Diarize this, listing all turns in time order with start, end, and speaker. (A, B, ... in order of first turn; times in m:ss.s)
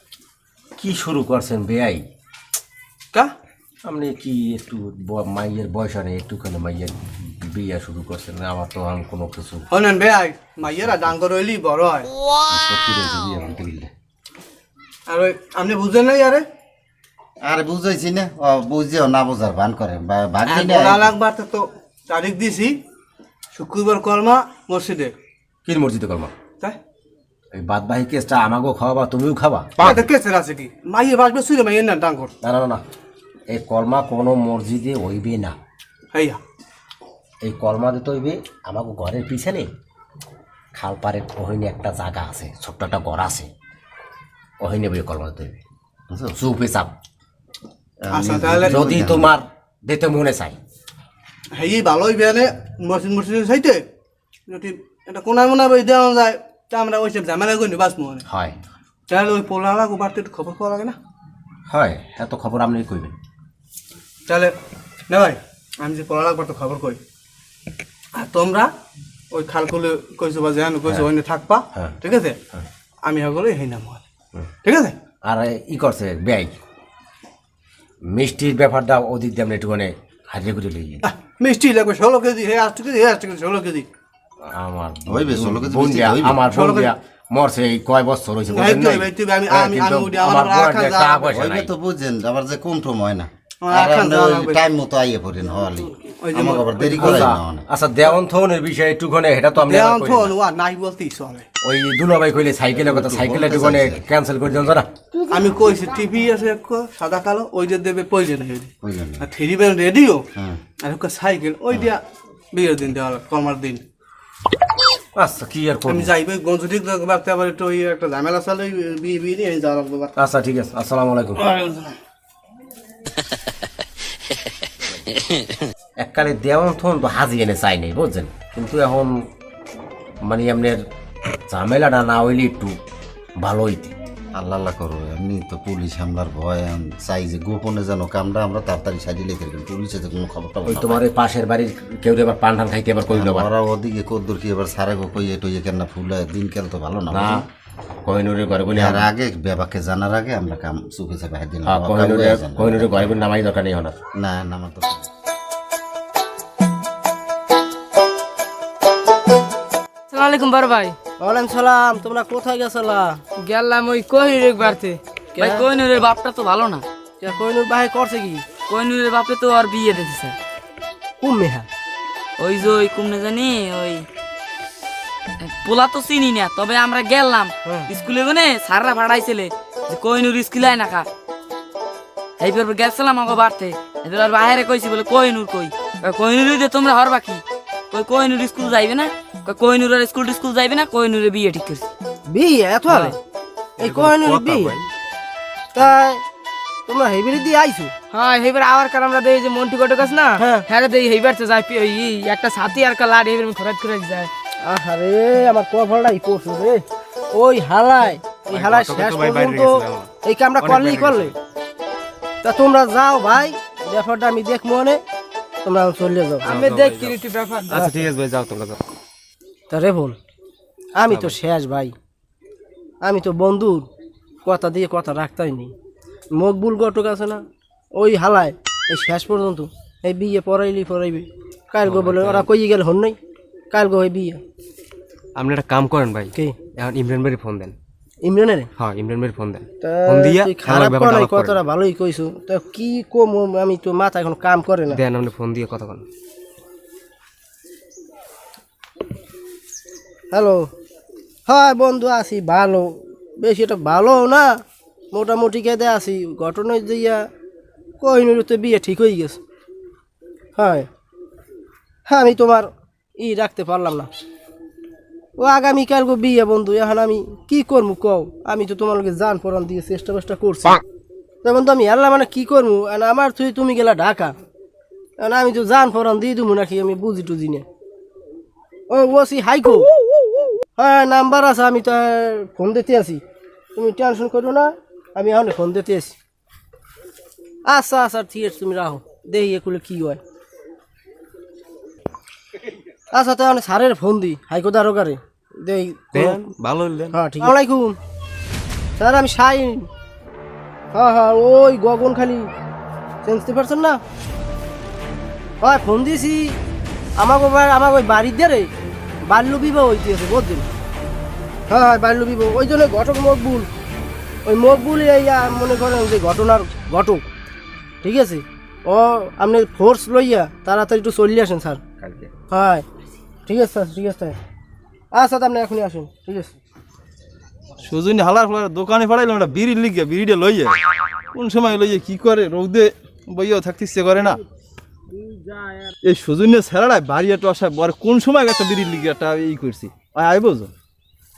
0:00.8-0:02.0 A
0:03.9-0:09.6 A
0:09.7-0:12.1 B
0:12.5-0:13.9 C
0:15.1-0:16.5 B
0:17.4-0:21.2 C
0:20.5-0:22.8 B
0:23.5-0:25.1 B
0:25.7-0:26.3 A
0:27.6-0:30.0 A
0:29.8-0:32.3 B
0:32.4-0:32.8 A
0:33.5-0:35.6 A
0:36.1-0:36.4 B
0:37.4-0:39.7 A
0:40.7-0:43.5 A
0:44.6-0:45.6 A
0:46.1-0:46.4 C
0:46.4-0:46.9 A
0:48.0-0:49.3 C
0:48.1-0:48.8 B
0:48.6-0:50.6 A
0:51.6-0:53.8 B
0:54.5-0:58.2 B
0:58.3-0:58.6 A
0:59.1-1:01.0 B
1:01.7-1:03.1 A
1:04.3-1:04.5 B
1:05.1-1:07.0 B
1:08.2-1:08.7 B
1:09.3-1:12.4 B
1:13.1-1:14.0 B
1:14.6-1:15.0 B
1:15.2-1:16.5 A
1:18.1-1:21.0 A
1:21.0-1:23.9 B
1:24.4-1:31.7 A
1:25.1-1:26.4 C
1:26.5-1:26.9 B
1:28.5-1:31.3 B
1:31.3-1:37.7 C
1:33.6-1:34.6 B
1:36.2-1:37.3 B
1:37.0-1:40.3 A
1:39.5-1:41.5 B
1:41.6-1:44.9 A
1:42.8-1:44.0 C
1:45.3-1:50.2 B
1:48.8-1:49.3 C
1:50.8-1:52.0 B
1:52.5-1:53.8 B
1:55.2-1:56.1 A
1:55.9-2:00.1 B
2:00.2-2:01.5 A
2:01.5-2:01.9 B
2:06.0-2:09.2 A
2:10.2-2:10.8 A
2:11.5-2:12.8 A
2:13.4-2:14.0 A
2:14.4-2:21.0 C
2:20.7-2:23.5 A
2:23.1-2:27.4 C
2:27.1-2:27.4 A
2:28.1-2:29.1 A
2:28.7-2:33.2 C
2:31.7-2:34.0 A
2:34.2-2:35.1 C
2:40.1-2:41.0 D
2:41.2-2:43.2 E
2:43.4-2:45.0 D
2:45.4-2:45.6 E
2:45.4-2:46.8 F
2:47.2-2:48.4 E
2:48.7-2:50.4 F
2:51.2-2:51.7 E
2:52.4-2:54.0 F
2:55.4-3:01.1 F
3:02.4-3:11.9 F
3:12.3-3:13.2 E
3:13.8-3:14.8 E
3:13.8-3:14.8 G
3:15.7-3:16.2 E
3:16.9-3:18.0 E
3:18.1-3:24.3 D
3:20.4-3:20.7 E
3:24.6-3:31.3 E
3:28.5-3:31.4 G
3:32.4-3:35.0 E
3:35.6-3:36.5 E
3:36.4-3:37.2 G
3:36.4-3:37.9 D
3:37.7-3:38.8 G
3:39.7-3:40.2 E
3:41.0-3:41.9 E
3:41.0-3:41.4 G
3:43.0-3:43.9 E
3:44.4-3:45.7 E
3:46.4-3:47.4 E
3:48.0-3:53.2 E
3:51.8-3:52.5 G
3:53.7-3:54.4 E
3:55.4-3:57.8 G
3:58.2-3:58.7 E
3:58.8-4:01.6 G
3:59.8-4:05.0 E
4:04.9-4:06.0 G
4:10.3-4:10.7 E
4:11.5-4:14.6 E
4:15.1-4:17.2 E
4:18.0-4:19.4 E
4:20.6-4:20.9 E
4:22.1-4:24.1 E
4:25.4-4:30.8 E
4:31.4-4:34.4 E
4:35.2-4:37.7 E
4:38.9-4:39.9 E
4:40.8-4:43.2 E
4:43.8-4:46.2 E
4:47.7-4:50.2 E
4:53.2-4:56.4 E
4:56.1-4:57.5 G
4:57.1-4:58.0 E
4:59.0-4:59.9 E
5:00.9-5:02.5 E
5:03.2-5:04.0 E
5:05.6-5:06.5 E
5:07.2-5:08.7 E
5:09.3-5:10.7 E
5:11.7-5:13.7 E
5:14.5-5:17.2 E
5:18.0-5:21.8 E
5:22.5-5:22.9 E
5:23.5-5:24.4 E
5:25.1-5:26.5 E
5:27.8-5:30.8 H
5:31.3-5:34.4 H
5:36.0-5:40.7 H